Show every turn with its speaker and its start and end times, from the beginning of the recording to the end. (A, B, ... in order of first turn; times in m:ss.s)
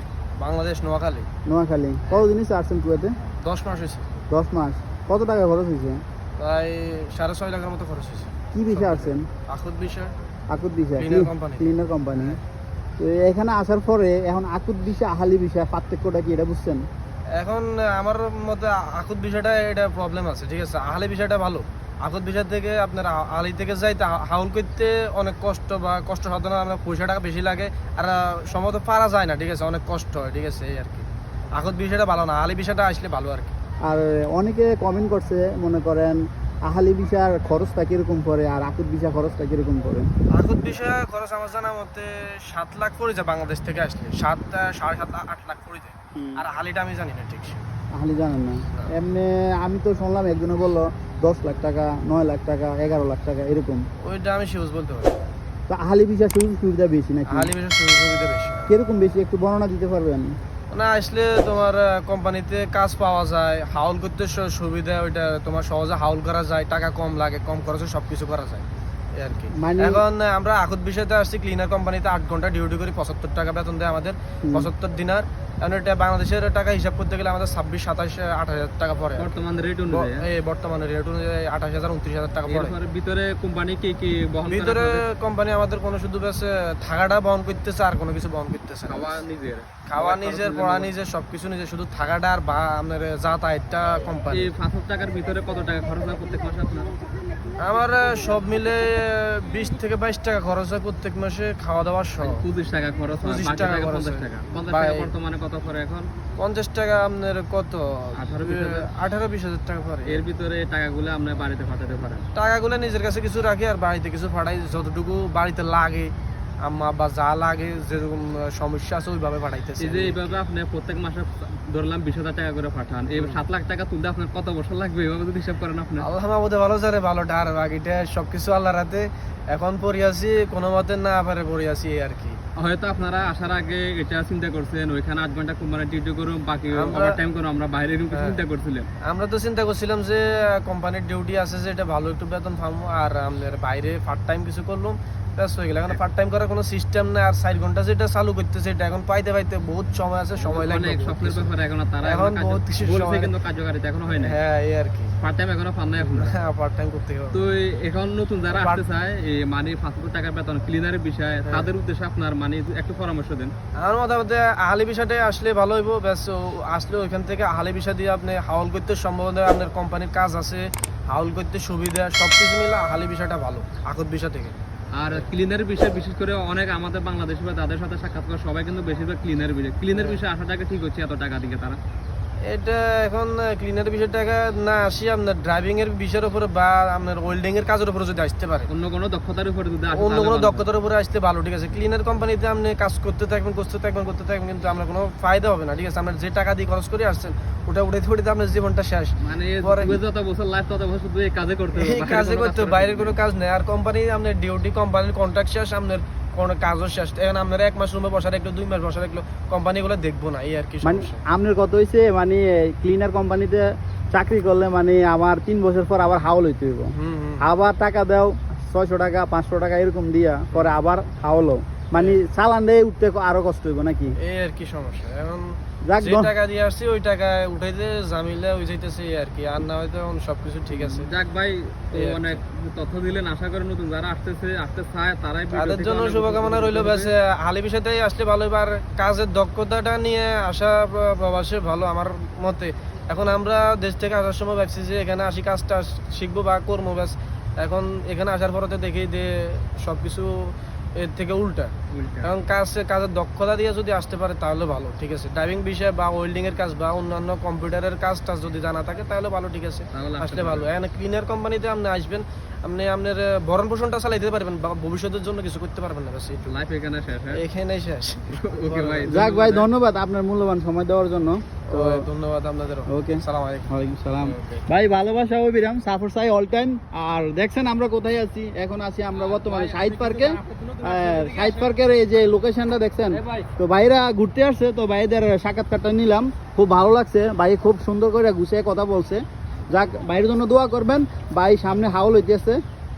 0:00.4-0:01.3 A
0:01.4-0:03.1 B
0:03.4-0:04.1 A
0:04.3-0:06.0 B
0:06.4-0:10.1 A
0:08.5-0:09.3 B
0:10.5-0:12.4 B
0:10.9-0:12.4 A
0:13.0-0:16.8 B
0:17.4-0:33.6 A
0:33.8-0:40.1 B
0:40.4-0:47.6 A
0:46.2-0:46.4 B
0:47.9-0:53.8 B
0:54.0-0:55.2 A
0:55.7-0:57.5 B
0:57.2-0:58.7 A
0:58.7-1:00.4 B
1:00.7-1:22.8 A
1:09.5-1:10.0 B
1:14.4-1:14.7 B
1:19.2-1:20.2 C
1:22.5-1:25.0 C
1:24.5-1:29.2 A
1:28.9-1:30.9 C
1:29.9-1:34.5 A
1:34.3-1:36.9 C
1:37.6-1:42.4 A
1:42.2-1:46.1 C
1:43.2-1:45.1 A
1:46.4-1:50.2 A
1:48.2-1:48.9 C
1:50.1-1:52.3 C
1:52.3-2:00.4 A
1:59.8-2:06.1 C
2:03.1-2:03.4 A
2:06.0-2:12.4 A
2:12.6-2:18.9 C
2:16.7-2:17.2 A
2:18.1-2:18.4 A
2:19.0-2:33.3 A
2:30.4-2:34.4 C
2:34.1-2:35.1 A
2:35.2-2:36.4 C
2:36.0-2:37.4 A
2:37.3-2:43.5 C
2:38.5-2:38.8 A
2:43.8-2:54.6 A
2:54.9-3:01.8 C
2:59.9-3:00.2 A
3:02.4-3:08.7 A
3:08.7-3:10.7 C
3:09.9-3:20.0 A
3:19.2-3:23.2 C
3:21.7-3:31.2 A
3:30.8-3:44.2 B
3:36.9-3:37.5 A
3:40.5-3:40.8 A
3:41.9-3:42.2 A
3:44.2-3:51.1 A
3:45.9-3:46.3 B
3:50.9-3:57.1 C
3:51.9-3:52.4 A
3:55.5-4:26.5 A
4:11.9-4:12.3 C
4:19.9-4:20.7 C
4:26.5-4:27.4 C
4:27.3-4:29.2 A
4:28.3-4:29.7 C
4:29.1-4:32.1 B
4:31.7-4:34.6 A
4:32.9-4:52.6 B
4:39.1-4:41.8 C
4:43.1-4:43.5 C